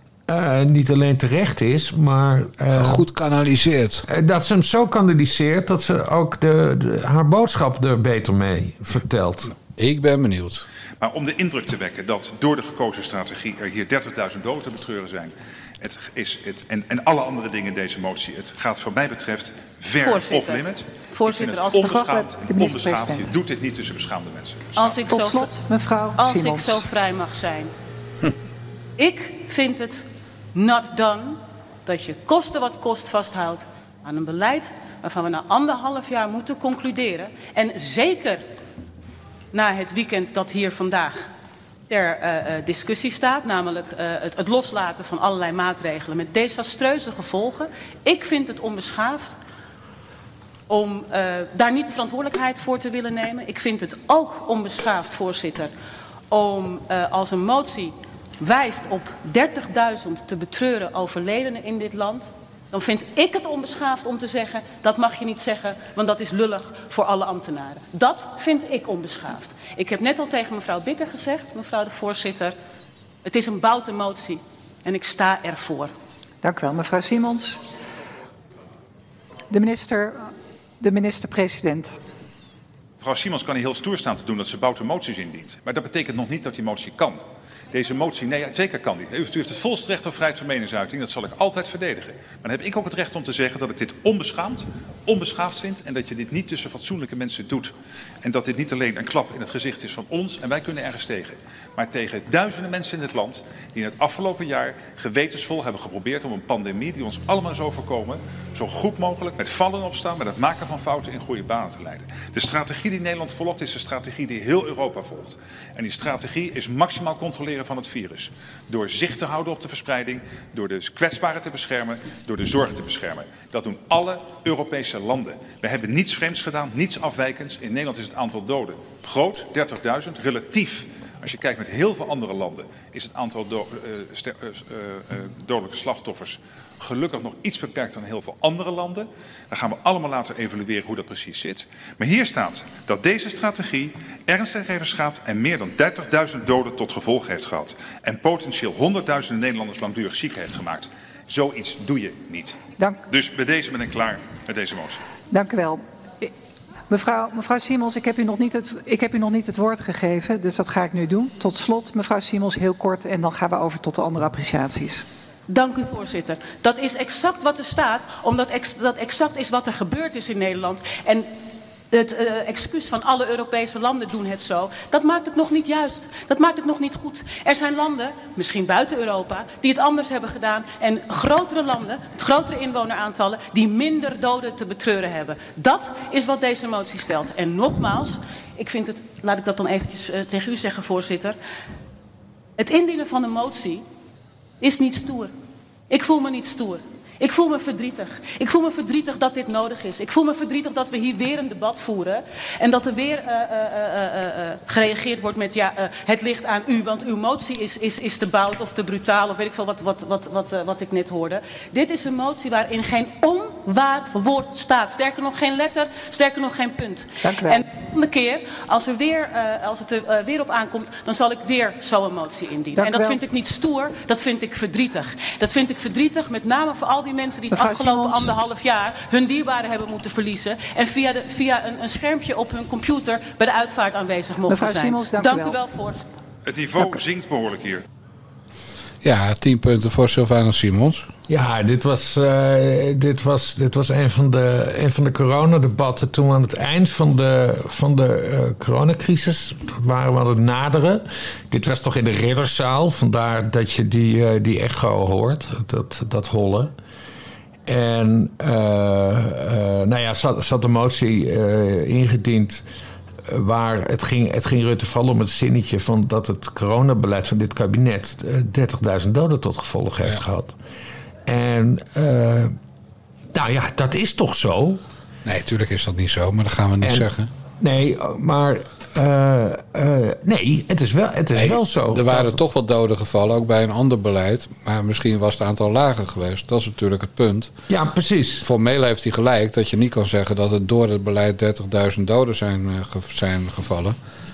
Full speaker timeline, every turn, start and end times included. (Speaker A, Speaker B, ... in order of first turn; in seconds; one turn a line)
Speaker A: 0.3-3.0
Speaker B: 2.7-4.0
Speaker A: 4.1-9.5
Speaker B: 9.6-10.7
Speaker C: 11.0-25.1
Speaker D: 20.0-22.1
Speaker E: 21.8-23.3
Speaker D: 24.8-25.5
Speaker E: 25.1-26.8
Speaker D: 26.1-27.7
Speaker D: 29.0-38.4
Speaker D: 39.5-41.2
Speaker D: 41.9-49.4
Speaker D: 50.7-55.7
Speaker D: 56.3-72.5
Speaker D: 73.2-75.9
Speaker E: 76.4-77.6
Speaker E: 79.5-80.3
Speaker E: 80.8-82.0
Speaker C: 83.0-155.0
Speaker E: 155.3-156.3
Speaker E: 156.9-165.0
Speaker D: 165.5-171.3
Speaker D: 171.9-191.4
Speaker D: 192.6-193.8
Speaker D: 194.6-195.3
Speaker D: 195.9-236.0
Speaker E: 217.2-217.6
Speaker E: 222.8-223.2
Speaker E: 227.5-228.3
Speaker E: 234.5-235.6
Speaker C: 236.4-237.8
Speaker B: 239.0-241.1
Speaker A: 241.3-256.7
Speaker A: 257.7-262.6
Speaker A: 263.2-270.6
Speaker A: 271.2-272.5
Speaker A: 273.3-274.8
Speaker B: 275.2-277.3
Speaker A: 276.8-277.1
Speaker A: 277.6-282.4
Speaker B: 281.3-287.5
Speaker A: 287.7-288.4
Speaker B: 288.4-293.9